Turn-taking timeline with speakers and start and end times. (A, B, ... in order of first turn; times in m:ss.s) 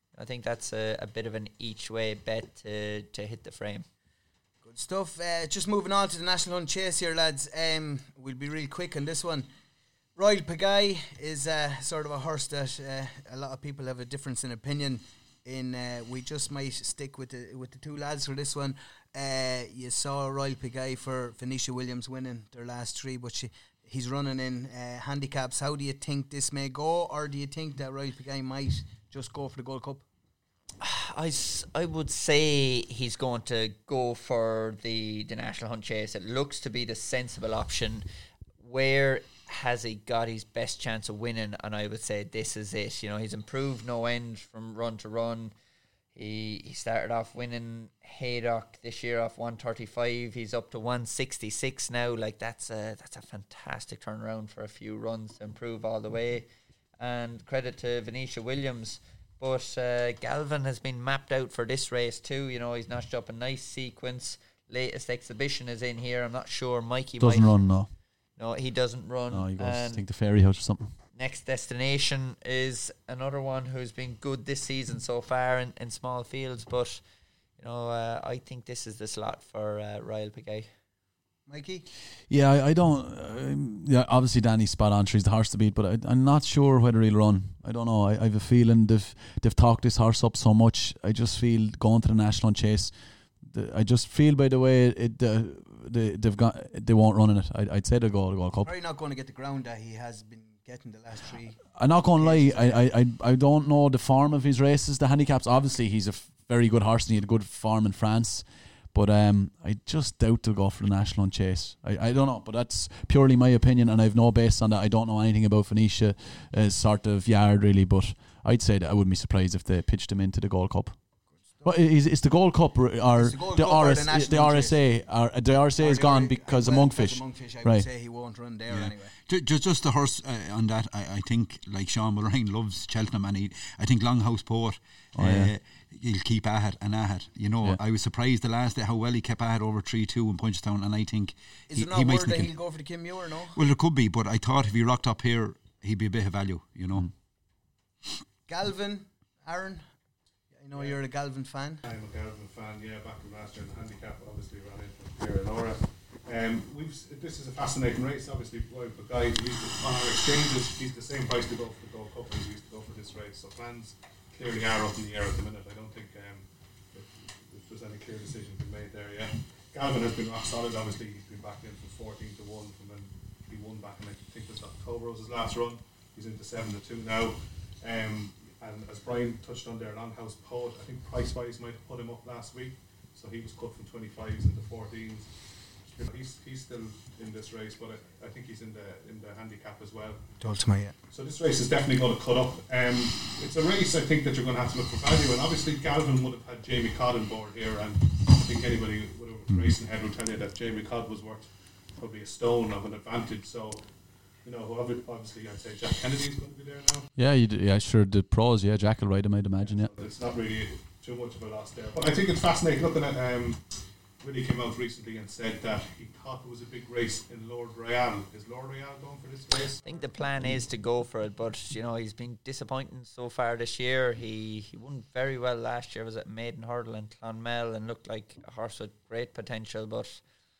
0:00.1-0:03.9 A
0:04.6-0:09.5 B
0:10.2-0:30.0 B
0:30.8-0:38.0 A
0:38.6-0:45.5 A
0:46.1-0:56.4 A
0:57.0-1:10.0 A
1:07.2-1:07.9 C
1:09.3-1:11.0 C
1:11.1-1:17.0 A
1:17.6-1:20.7 A
1:21.5-1:21.9 B
1:22.3-1:38.7 C
1:38.6-1:42.8 B
1:41.7-2:01.0 C
2:01.4-2:01.7 B
2:01.6-2:07.9 C
2:03.1-2:04.9 B
2:05.8-2:09.1 B
2:08.7-2:22.5 D
2:15.2-2:15.5 C
2:21.7-2:23.6 B
2:23.5-2:27.1 D
2:28.5-2:29.9 B
2:30.5-2:31.8 B
2:30.7-2:31.0 E
2:31.8-3:10.4 E
3:10.4-3:11.0 B
3:11.1-3:23.9 E
3:19.5-3:19.8 D
3:24.4-3:27.1 E
3:27.2-3:30.0 C
3:29.6-3:40.1 E
3:39.5-3:50.2 A